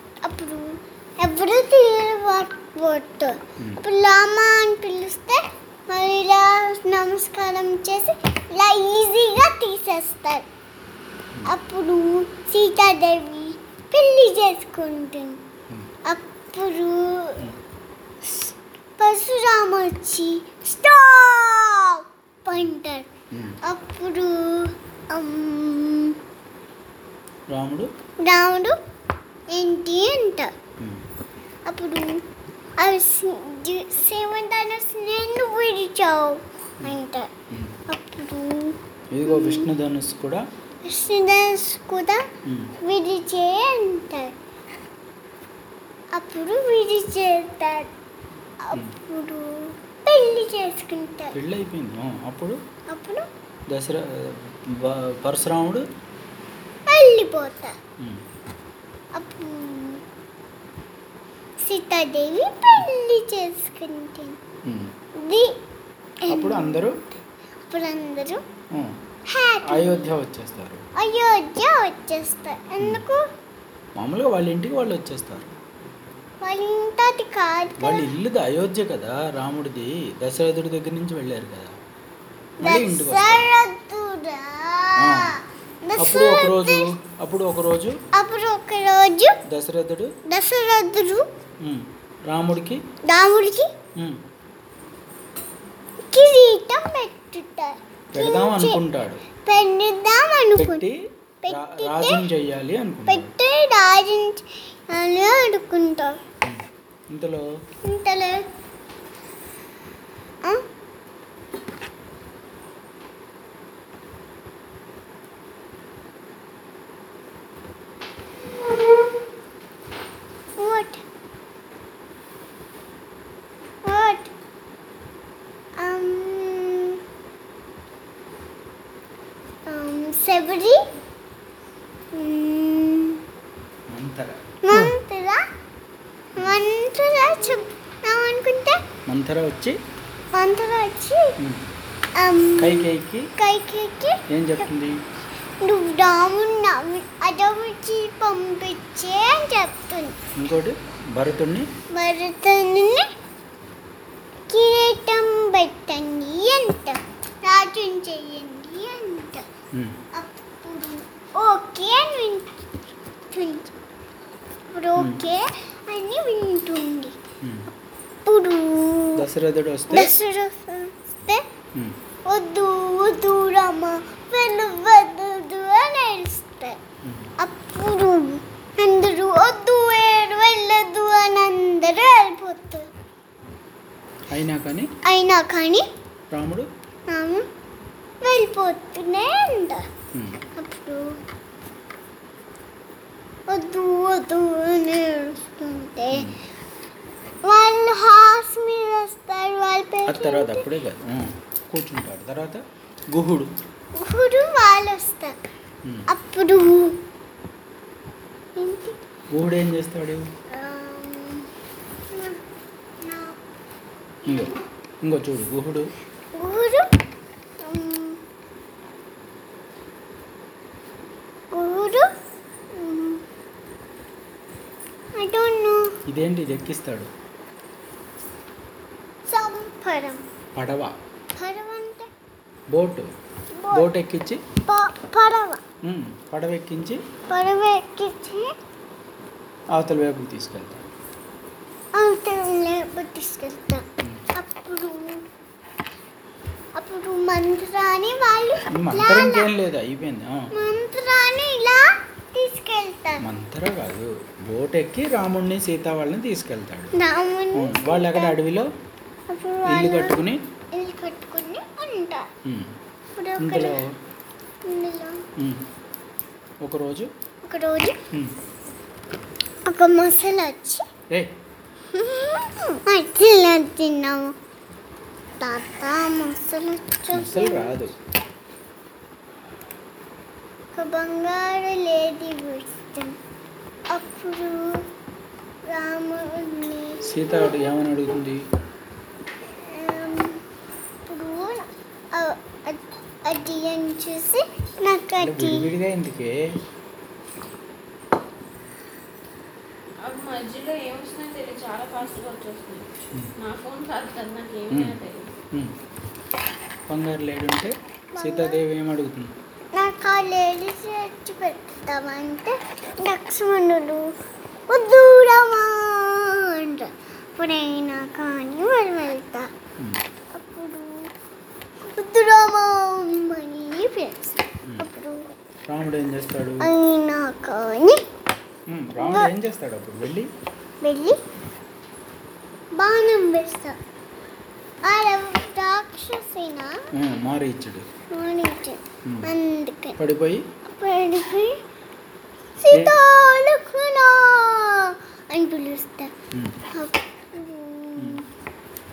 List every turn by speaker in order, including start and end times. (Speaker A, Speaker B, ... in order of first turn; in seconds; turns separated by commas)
Speaker A: 0.2-10.4, Speaker A: 11.5-15.4, Speaker A: 16.1-17.4, Speaker A: 18.2-23.1, Speaker B: 23.3-23.6, Speaker A: 23.6-26.2, Speaker B: 27.5-27.9, Speaker A: 28.2-28.8, Speaker A: 29.5-30.5, Speaker A: 31.7-32.2, Speaker A: 32.8-37.3, Speaker B: 37.5-37.8, Speaker A: 37.9-39.7, Speaker B: 39.1-40.5, Speaker A: 40.8-42.2, Speaker B: 42.5-42.7, Speaker A: 42.8-44.4, Speaker A: 46.1-47.9, Speaker A: 48.6-51.4, Speaker B: 51.3-52.6, Speaker A: 52.9-53.3, Speaker B: 53.7-55.9, Speaker A: 56.9-57.8, Speaker A: 59.1-60.0, Speaker A: 61.6-64.4, Speaker B: 64.6-64.9, Speaker A: 65.2-65.6, Speaker A: 66.2-67.1, Speaker B: 66.3-67.0, Speaker A: 67.7-68.4, Speaker A: 69.3-70.1, Speaker B: 69.7-70.8, Speaker A: 71.0-73.3, Speaker B: 74.0-75.5, Speaker A: 76.4-78.1, Speaker B: 77.8-81.8, Speaker B: 82.6-83.5, Speaker A: 82.6-86.9, Speaker B: 85.0-85.3, Speaker B: 86.0-88.0, Speaker A: 88.1-89.4, Speaker B: 89.5-90.2, Speaker A: 90.3-91.3, Speaker B: 91.6-92.8, Speaker A: 93.0-93.7, Speaker B: 94.0-94.2, Speaker A: 96.0-98.8, Speaker B: 98.1-99.2, Speaker A: 99.4-100.8, Speaker B: 100.6-103.3, Speaker A: 101.4-102.3, Speaker A: 103.1-106.2, Speaker B: 106.4-107.5, Speaker A: 107.8-108.5, Speaker A: 120.6-121.0, Speaker A: 123.8-124.3, Speaker A: 125.8-127.0, Speaker A: 129.7-130.8, Speaker A: 132.1-133.2, Speaker B: 133.9-134.4, Speaker A: 134.6-135.4, Speaker A: 136.4-138.8, Speaker B: 139.1-139.8, Speaker A: 140.3-141.3, Speaker A: 142.2-144.2, Speaker B: 142.6-143.3, Speaker B: 144.3-145.0, Speaker A: 145.6-150.2, Speaker B: 150.4-151.7, Speaker A: 151.9-153.1, Speaker A: 154.5-159.5, Speaker B: 159.7-160.0, Speaker A: 160.1-162.6, Speaker A: 163.3-163.8, Speaker A: 164.7-167.2, Speaker B: 165.0-165.2, Speaker B: 167.4-167.7, Speaker A: 168.2-169.2, Speaker B: 169.2-170.2, Speaker A: 169.9-171.4, Speaker A: 172.2-176.8, Speaker B: 177.0-177.3, Speaker A: 177.4-182.9, Speaker B: 184.3-184.9, Speaker A: 185.0-185.9, Speaker B: 186.3-186.7, Speaker A: 187.1-187.5, Speaker A: 188.2-189.9, Speaker B: 190.1-190.4, Speaker A: 190.6-191.2, Speaker A: 193.5-196.3, Speaker A: 197.4-200.7, Speaker B: 200.1-203.5, Speaker A: 203.9-205.4, Speaker A: 206.1-207.0, Speaker A: 208.6-209.0, Speaker B: 209.3-210.3, Speaker A: 210.5-211.5, Speaker A: 212.1-212.4, Speaker A: 213.0-213.4, Speaker B: 214.2-215.9, Speaker A: 216.3-216.9, Speaker A: 217.6-218.2, Speaker A: 221.5-222.1, Speaker A: 222.7-223.2, Speaker A: 225.2-226.0, Speaker B: 226.1-227.1, Speaker A: 229.3-230.3, Speaker B: 230.6-231.0, Speaker A: 231.3-232.1, Speaker B: 232.7-233.1, Speaker A: 233.5-233.9, Speaker B: 233.7-234.4, Speaker A: 234.7-235.6, Speaker B: 235.8-237.0, Speaker A: 237.3-238.5, Speaker B: 239.7-240.9, Speaker A: 241.9-245.2, Speaker A: 246.8-249.5, Speaker B: 248.7-250.5, Speaker A: 250.5-253.2, Speaker B: 253.2-256.9, Speaker A: 256.9-258.4, Speaker B: 257.5-258.7, Speaker A: 259.3-260.2, Speaker B: 259.7-260.4, Speaker A: 260.7-262.3, Speaker B: 262.4-262.8, Speaker A: 263.1-263.8, Speaker B: 263.4-263.9, Speaker A: 264.6-265.2, Speaker B: 265.4-265.6, Speaker B: 266.6-267.1, Speaker A: 267.4-268.0, Speaker B: 268.1-268.4, Speaker A: 269.7-270.9, Speaker A: 271.9-274.4, Speaker A: 275.4-277.8, Speaker B: 277.1-277.9, Speaker A: 280.7-283.2, Speaker A: 283.9-284.9, Speaker A: 285.7-287.6, Speaker B: 287.0-288.4, Speaker A: 289.6-290.4, Speaker A: 291.1-295.7, Speaker B: 295.2-296.4, Speaker C: 300.0-302.9, Speaker C: 303.4-305.3, Speaker B: 304.7-305.0, Speaker B: 306.9-309.3, Speaker A: 308.1-308.6, Speaker A: 309.7-314.1, Speaker A: 314.7-319.5, Speaker A: 320.3-321.1, Speaker A: 321.8-325.3, Speaker B: 325.7-326.7, Speaker A: 326.6-328.0, Speaker B: 328.7-330.3, Speaker A: 329.0-329.3, Speaker A: 330.8-331.2, Speaker A: 332.8-333.8, Speaker A: 334.8-336.8, Speaker B: 336.9-337.9, Speaker A: 338.1-340.0, Speaker B: 339.1-339.3, Speaker B: 340.0-340.5, Speaker A: 340.6-341.6, Speaker A: 342.6-346.1, Speaker B: 342.7-343.0, Speaker B: 346.3-346.6, Speaker A: 346.7-348.3, Speaker B: 348.0-348.2